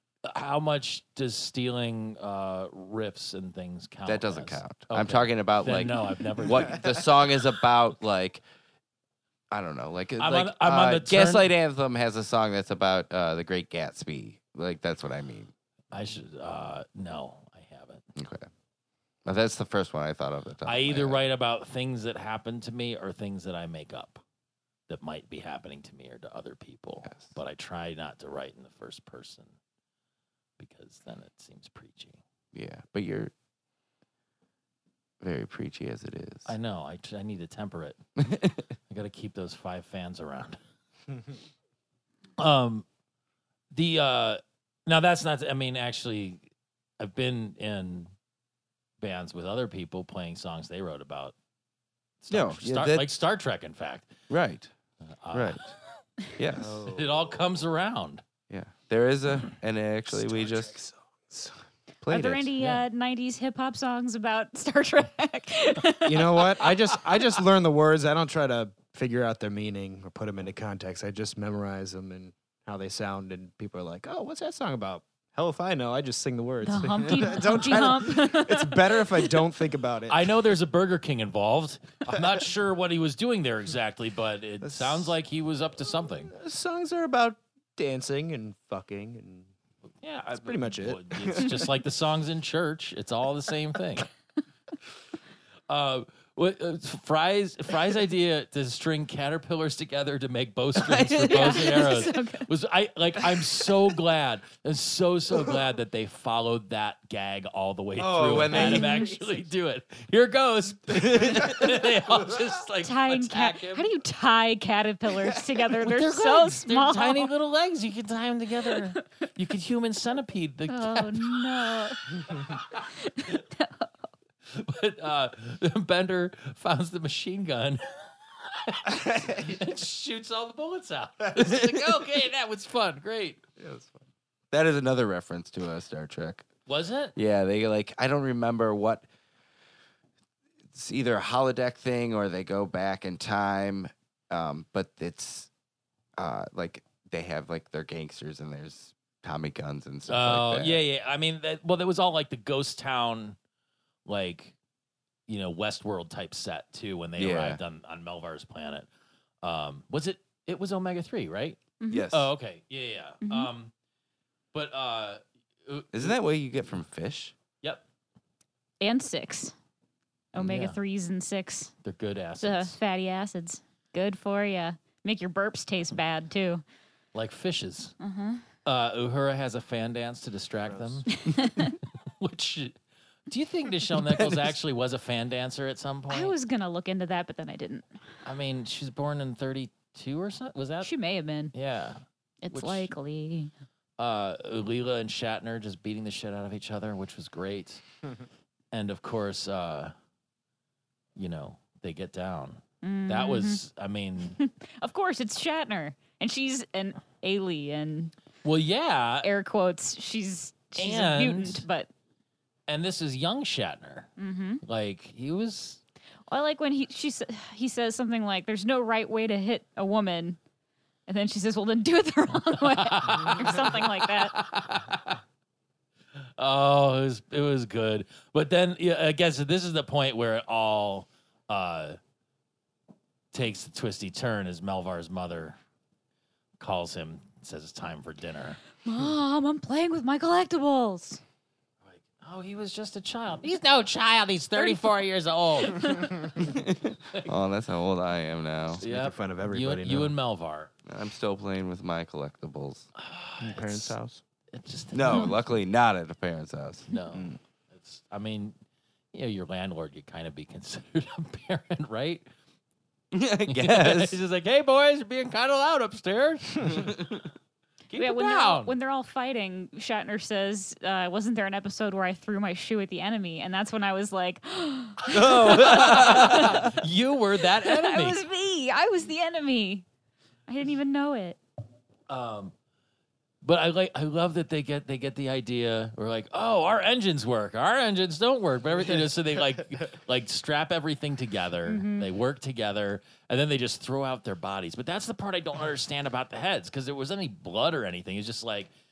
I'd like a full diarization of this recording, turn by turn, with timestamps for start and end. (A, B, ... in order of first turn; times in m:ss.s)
0:00.2-0:07.1 A
0:04.0-0:08.4 B
0:09.5-0:15.5 B
0:10.2-0:11.5 A
0:15.9-0:18.0 A
0:18.2-0:18.5 B
0:19.2-0:21.2 B
0:20.6-0:24.2 A
0:24.9-0:29.5 A
0:27.0-0:27.3 B
0:30.6-0:32.2 A
0:32.5-0:33.3 B
0:35.2-0:36.5 B
0:36.4-0:38.0 A
0:38.2-0:38.6 B
0:38.9-0:40.6 A
0:42.4-0:42.8 A
0:43.7-0:46.4 A
0:47.0-0:48.1 A
0:49.0-0:51.3 A
0:52.2-0:54.2 A
0:52.3-0:53.0 B
0:54.3-0:54.7 B
0:55.1-0:55.8 A
0:55.3-0:55.6 B
0:56.4-0:56.8 B
0:56.5-0:57.3 C
0:56.8-0:58.2 A
0:58.5-1:00.8 B
1:00.1-1:01.6 C
1:02.0-1:02.5 B
1:02.1-1:06.7 D
1:06.0-1:20.3 C
1:16.6-1:19.4 D
1:20.1-1:26.3 A
1:24.6-1:25.1 C
1:26.3-1:29.5 C
1:30.0-1:34.1 A
1:30.3-1:31.7 C
1:35.7-1:53.9 A
1:40.7-1:41.9 B
1:41.3-1:42.5 D
1:48.0-1:49.1 B
1:48.5-1:49.1 D
1:50.9-1:51.6 B
1:52.8-1:57.3 D
1:55.8-2:01.4 A
2:00.7-2:02.2 D
2:02.4-2:02.8 A
2:03.0-2:03.9 D
2:04.5-2:13.4 A
2:08.9-2:09.6 C
2:13.6-2:14.0 C
2:14.5-2:16.4 B
2:16.7-2:17.1 A
2:17.2-2:19.0 B
2:20.7-2:25.5 B
2:26.2-2:30.8 B
2:30.1-2:33.4 A
2:34.0-2:34.6 A
2:35.3-2:38.9 A
2:37.2-2:37.6 B
2:39.4-2:43.7 A
2:41.8-2:42.1 D
2:41.9-2:42.3 B
2:43.2-2:43.5 D
2:44.5-2:46.2 A
2:45.9-2:47.3 B
2:48.8-2:49.5 D
2:50.3-2:51.7 D
2:50.4-2:50.8 A
2:51.8-2:52.8 A
2:52.4-2:56.6 D
2:57.1-2:58.0 A
2:58.0-2:58.4 D
2:58.6-3:06.3 A
3:00.7-3:01.1 C
3:01.1-3:01.8 D
3:04.0-3:04.5 B
3:06.1-3:07.9 D
3:08.2-3:10.9 A
3:10.8-3:11.5 D
3:11.5-3:12.9 A
3:12.4-3:13.5 D
3:14.0-3:17.8 A
3:18.7-3:19.9 A
3:21.2-3:24.4 A
3:22.8-3:23.6 D
3:24.4-3:28.1 D
3:28.4-3:29.3 A
3:29.2-3:31.9 D
3:30.8-3:31.6 A
3:32.7-3:34.1 A
3:34.2-3:34.6 D
3:34.6-3:35.8 A
3:36.3-3:40.4 D
3:41.1-3:44.4 D
3:42.6-3:45.2 A
3:46.2-3:52.0 A
3:53.3-3:55.6 A
3:56.6-3:58.6 A
3:58.8-4:01.2 D
4:01.8-4:06.3 A
4:04.6-4:04.9 D
4:05.6-4:06.3 D
4:06.4-4:08.8 B
4:08.8-4:10.1 C
4:08.8-4:10.7 A
4:10.9-4:12.9 B
4:13.0-4:14.0 A
4:13.4-4:14.2 C
4:14.5-4:15.5 A
4:14.9-4:16.9 B
4:15.1-4:15.3 D
4:16.9-4:18.6 A
4:17.1-4:17.4 C
4:19.1-4:22.2 A
4:23.1-4:24.2 B
4:23.5-4:27.2 A
4:26.7-4:27.1 B
4:27.9-4:28.7 A
4:28.0-4:36.8 D
4:35.1-4:38.2 A
4:35.1-4:36.7 B
4:37.6-4:39.9 D
4:40.5-4:41.4 D
4:42.1-4:42.5 A
4:43.4-4:58.7 A
4:51.7-4:52.1 D